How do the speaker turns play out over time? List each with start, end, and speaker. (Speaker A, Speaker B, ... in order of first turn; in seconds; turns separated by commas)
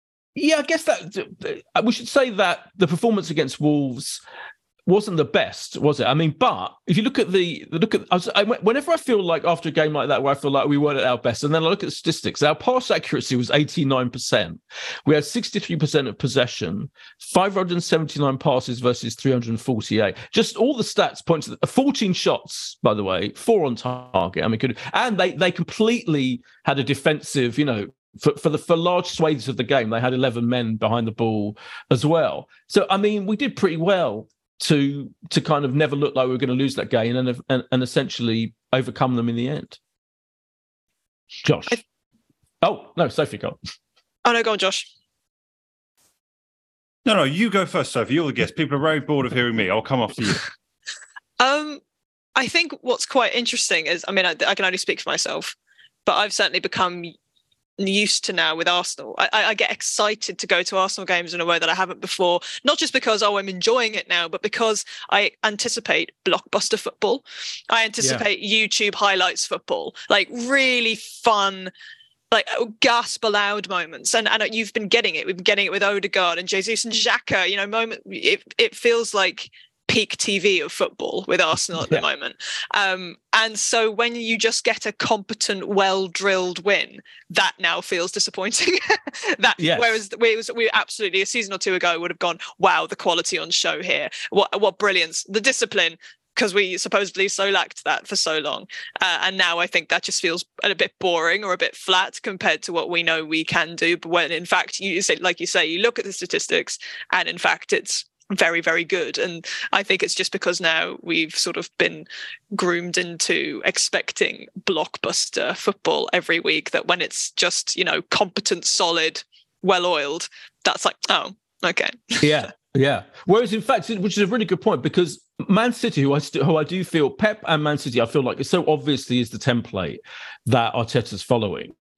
Speaker A: 0.4-4.2, Speaker A: 4.9-39.8, Speaker A: 41.4-41.8, Speaker A: 42.6-43.6, Speaker B: 44.2-44.9, Speaker C: 47.1-50.5, Speaker B: 51.4-51.8, Speaker B: 52.4-55.5, Speaker B: 56.1-57.1, Speaker B: 57.8-71.7, Speaker A: 68.0-68.2, Speaker B: 72.3-122.4, Speaker A: 81.8-82.0, Speaker A: 89.6-90.0, Speaker A: 122.2-131.7